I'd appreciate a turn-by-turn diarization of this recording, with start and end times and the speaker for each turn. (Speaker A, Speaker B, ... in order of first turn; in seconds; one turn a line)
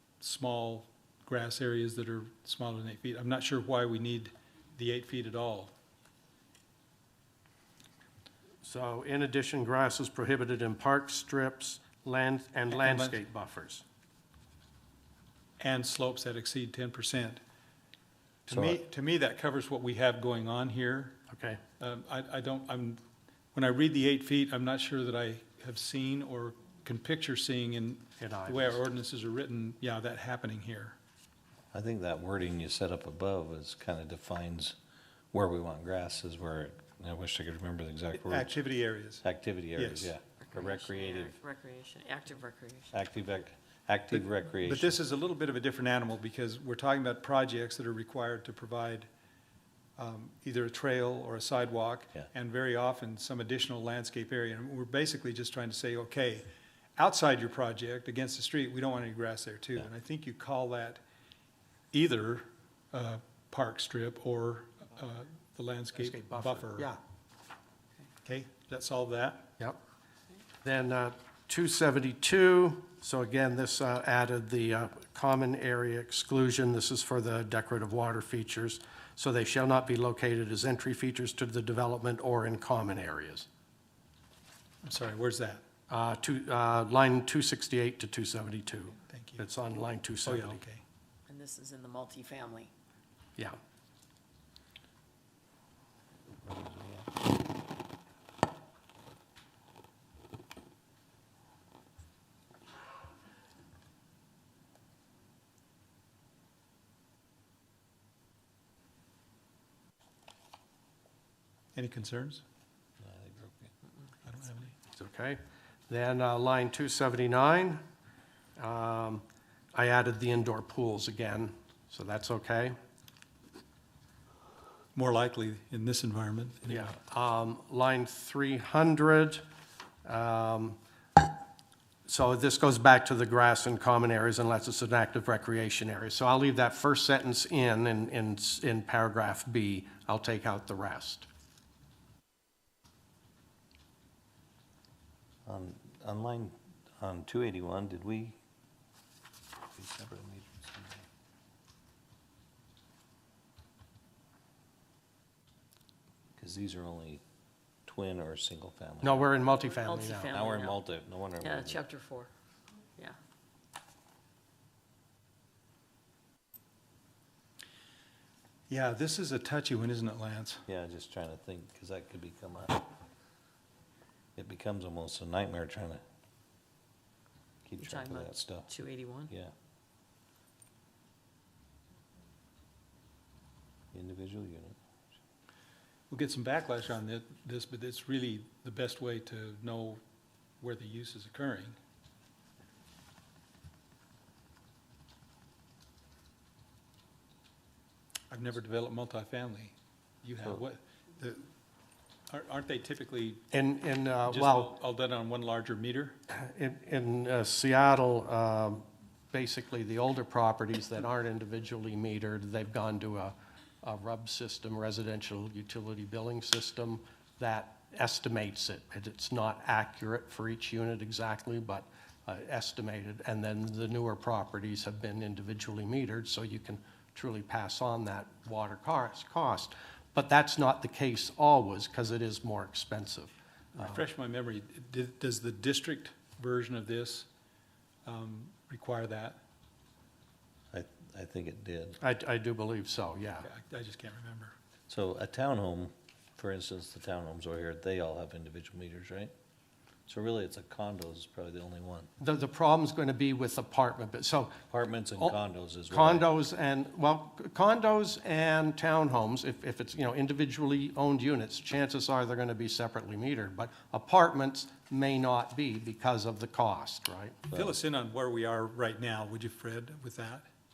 Speaker A: 0.2-5.7
Speaker B: 8.6-13.8
Speaker A: 12.7-13.2
Speaker A: 15.6-17.4
Speaker A: 18.5-21.2
Speaker C: 18.5-18.8
Speaker B: 21.3-21.6
Speaker A: 21.8-23.0
Speaker A: 23.5-31.0
Speaker B: 28.2-28.8
Speaker C: 31.7-34.8
Speaker C: 35.3-38.6
Speaker A: 38.1-39.2
Speaker C: 39.2-41.4
Speaker A: 39.8-40.1
Speaker D: 40.4-43.0
Speaker C: 42.9-45.0
Speaker A: 44.1-49.1
Speaker A: 50.0-61.0
Speaker A: 61.9-66.9
Speaker B: 66.0-67.0
Speaker A: 68.2-69.5
Speaker B: 70.6-83.5
Speaker A: 84.8-85.6
Speaker B: 85.9-90.6
Speaker A: 89.1-89.5
Speaker A: 90.2-90.8
Speaker D: 91.3-92.7
Speaker C: 96.5-97.0
Speaker A: 111.8-112.4
Speaker C: 113.0-113.7
Speaker A: 114.2-114.7
Speaker B: 114.9-117.8
Speaker B: 118.6-119.2
Speaker B: 119.7-122.8
Speaker A: 125.0-126.9
Speaker B: 126.7-129.4
Speaker B: 130.1-130.8
Speaker B: 132.1-141.3
Speaker C: 145.5-148.4
Speaker C: 149.8-151.0
Speaker C: 156.4-157.2
Speaker C: 157.9-159.3
Speaker B: 159.0-160.4
Speaker D: 159.8-160.8
Speaker C: 160.3-161.9
Speaker D: 161.4-162.3
Speaker A: 168.7-170.6
Speaker C: 170.7-172.9
Speaker C: 174.4-176.0
Speaker C: 177.7-178.7
Speaker D: 177.8-179.3
Speaker C: 183.9-184.8
Speaker A: 186.1-190.0
Speaker A: 190.6-191.8
Speaker A: 198.3-201.5
Speaker A: 202.3-203.4
Speaker B: 203.5-204.7
Speaker A: 204.3-206.2
Speaker B: 206.3-234.0
Speaker A: 233.8-237.3
Speaker A: 238.1-239.4
Speaker C: 240.7-242.0
Speaker B: 242.0-243.5
Speaker A: 243.4-244.5
Speaker C: 244.9-249.3
Speaker C: 250.1-252.1
Speaker B: 252.2-254.6
Speaker C: 254.7-256.3
Speaker B: 255.2-267.4
Speaker A: 267.5-270.5